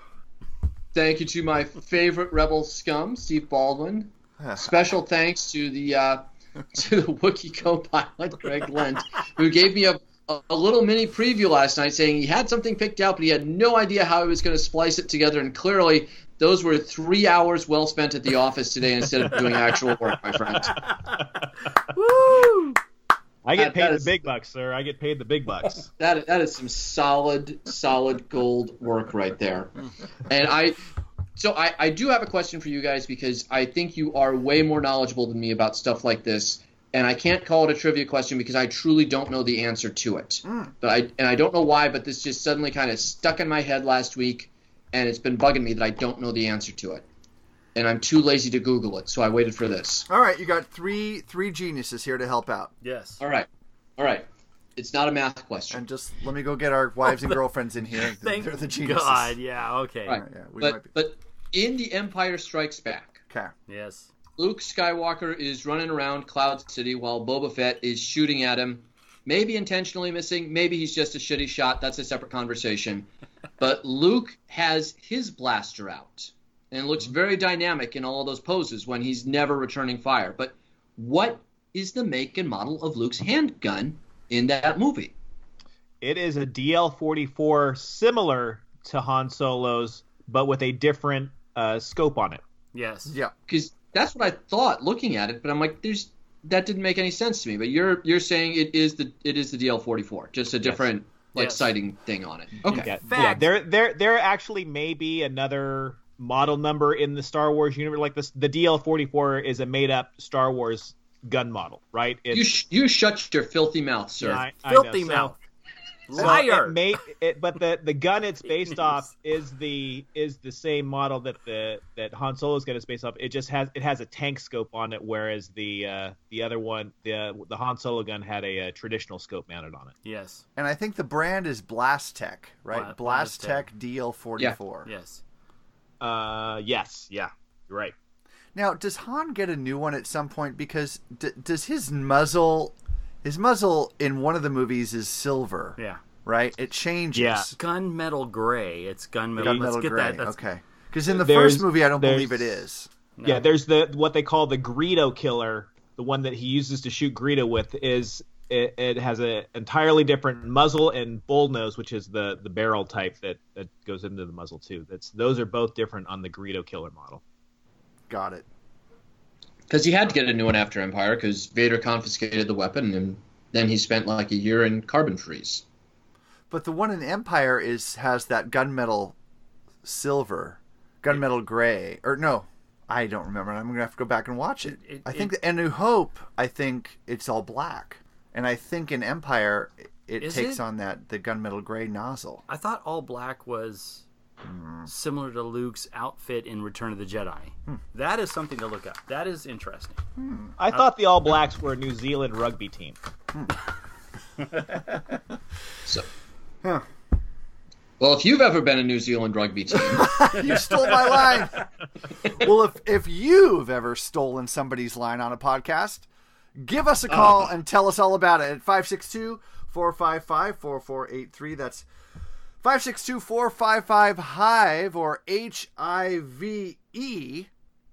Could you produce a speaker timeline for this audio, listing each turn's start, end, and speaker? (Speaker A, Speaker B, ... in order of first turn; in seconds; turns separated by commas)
Speaker A: 0.9-20.8, Speaker B: 4.4-4.9, Speaker C: 20.7-21.5, Speaker D: 21.9-22.8, Speaker C: 23.4-25.9, Speaker A: 23.6-24.1, Speaker A: 26.0-29.7, Speaker A: 30.3-30.8, Speaker A: 31.4-47.0, Speaker B: 40.5-40.7, Speaker A: 47.8-50.1, Speaker B: 50.1-52.7, Speaker D: 52.8-53.2, Speaker A: 53.2-53.5, Speaker A: 54.0-54.2, Speaker A: 54.8-55.8, Speaker B: 55.7-59.4, Speaker D: 57.0-57.4, Speaker D: 58.0-60.2, Speaker A: 60.1-63.2, Speaker B: 60.1-60.9, Speaker D: 63.7-64.1, Speaker A: 64.4-73.1, Speaker A: 73.6-85.1, Speaker C: 86.0-92.4, Speaker D: 92.7-93.2, Speaker B: 93.1-93.3, Speaker A: 93.5-102.9, Speaker D: 100.6-101.7, Speaker C: 102.7-112.6, Speaker D: 103.0-103.5, Speaker A: 112.3-114.5, Speaker C: 114.2-115.3, Speaker D: 114.6-115.4, Speaker D: 116.1-116.8, Speaker C: 116.2-129.9, Speaker B: 116.2-116.4, Speaker D: 118.7-119.0, Speaker D: 130.0-130.4, Speaker B: 130.6-134.9, Speaker D: 132.7-133.7, Speaker D: 134.8-135.2, Speaker C: 136.0-137.9, Speaker B: 138.6-147.5, Speaker D: 145.8-146.0, Speaker C: 147.2-147.5, Speaker D: 147.5-150.4, Speaker B: 149.4-152.9, Speaker C: 151.1-152.6, Speaker D: 153.2-153.5, Speaker C: 153.2-167.2, Speaker B: 168.1-168.5, Speaker A: 169.7-175.6, Speaker B: 176.5-179.2, Speaker B: 179.8-192.4, Speaker D: 184.7-185.4, Speaker D: 190.2-190.6, Speaker D: 192.5-194.0, Speaker B: 194.4-194.9, Speaker D: 194.9-200.0, Speaker B: 200.2-200.5, Speaker C: 200.6-203.0, Speaker A: 208.0-210.2, Speaker B: 209.9-211.7, Speaker B: 212.3-221.9, Speaker B: 222.6-227.5